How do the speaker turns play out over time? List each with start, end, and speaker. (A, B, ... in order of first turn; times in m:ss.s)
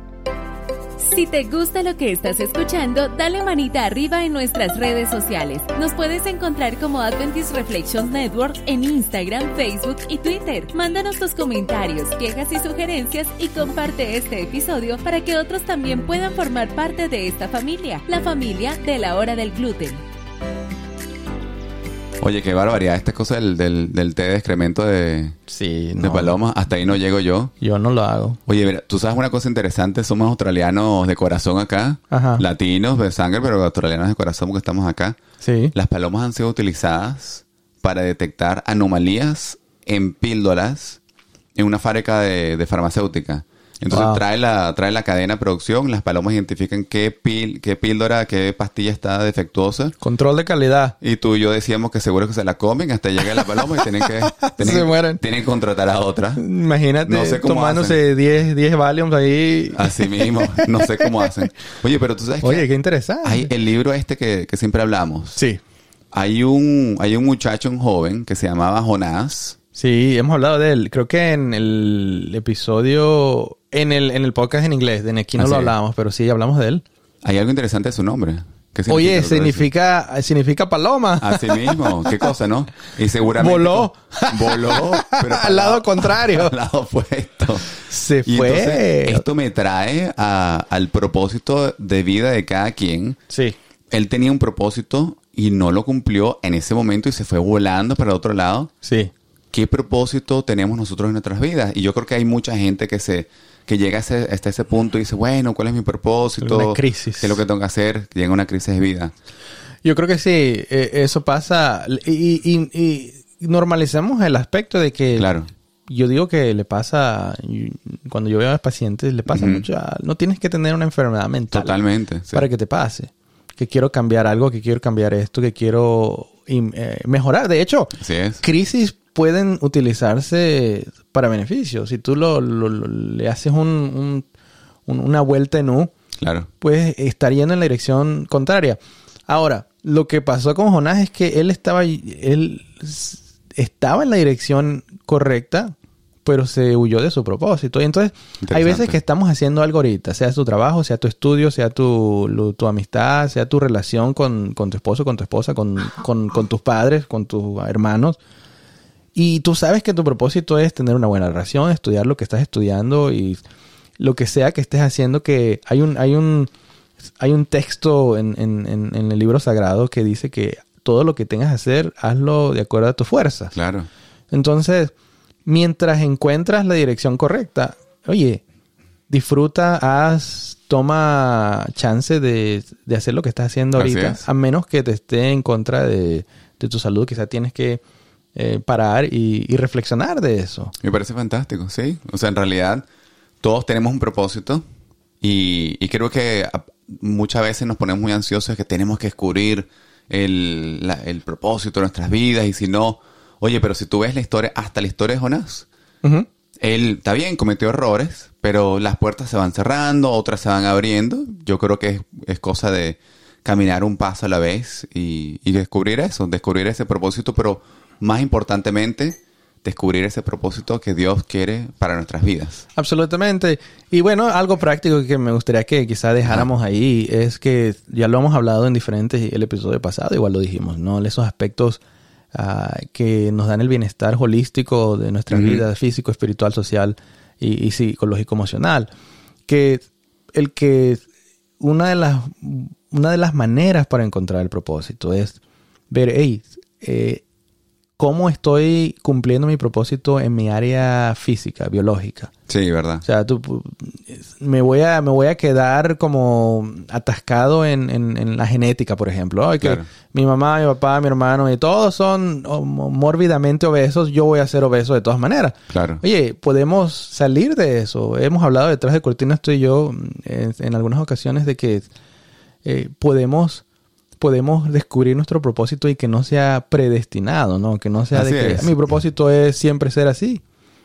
0:01.0-0:20.0 A
0:22.2-0:25.4 B
0:25.5-0:26.4 C
0:26.0-0:27.5 B
0:27.6-0:28.4 C
0:28.4-0:35.2 B
0:32.1-0:32.4 C
0:35.4-0:35.7 C
0:35.7-0:41.0 B
0:41.6-0:50.0 B
0:43.9-0:44.2 C
0:50.0-0:51.0 C
0:51.0-0:56.4 B
0:53.2-0:55.2 C
0:56.4-1:01.4 C
0:57.0-0:58.0 B
0:59.7-1:02.7 B
1:02.4-1:03.5 C
1:03.2-1:05.4 B
1:05.3-1:05.6 C
1:06.1-1:09.6 B
1:09.7-1:16.8 C
1:15.3-1:15.7 B
1:17.2-1:19.7 B
1:18.9-1:22.3 C
1:21.2-1:27.7 B
1:23.3-1:26.5 C
1:27.7-1:29.2 C
1:28.2-1:33.2 B
1:33.3-1:33.6 C
1:33.9-1:38.7 B
1:38.8-1:39.1 C
1:39.5-1:49.1 B
1:46.4-1:47.4 C
1:49.8-1:55.3 C
1:55.2-1:55.5 B
1:55.9-2:01.8 C
1:59.3-1:59.6 B
2:01.5-2:02.5 B
2:02.3-2:14.3 C
2:08.0-2:08.4 B
2:14.9-2:15.9 C
2:16.2-2:16.5 B
2:16.6-2:38.2 C
2:28.4-2:29.0 B
2:39.1-2:43.4 C
2:44.0-2:46.5 C
2:47.2-2:53.5 C
2:53.5-2:53.9 B
2:54.3-2:54.9 C
2:55.4-2:58.4 C
2:59.1-3:07.8 C
3:03.7-3:04.2 B
3:08.3-3:10.7 C
3:10.8-3:12.8 B
3:13.4-3:14.6 B
3:15.2-3:25.6 B
3:26.6-3:42.6 B
3:42.7-3:51.8 C
3:52.3-3:58.9 C
3:55.3-3:55.6 B
3:59.5-4:01.0 C
4:01.6-4:05.4 C
4:05.9-4:07.2 C
4:08.0-4:12.3 C
4:12.5-4:13.0 B
4:13.0-4:31.9 C
4:19.6-4:19.8 B
4:25.7-4:26.0 B
4:32.6-4:33.6 C
4:34.2-4:40.4 C
4:38.1-4:38.8 B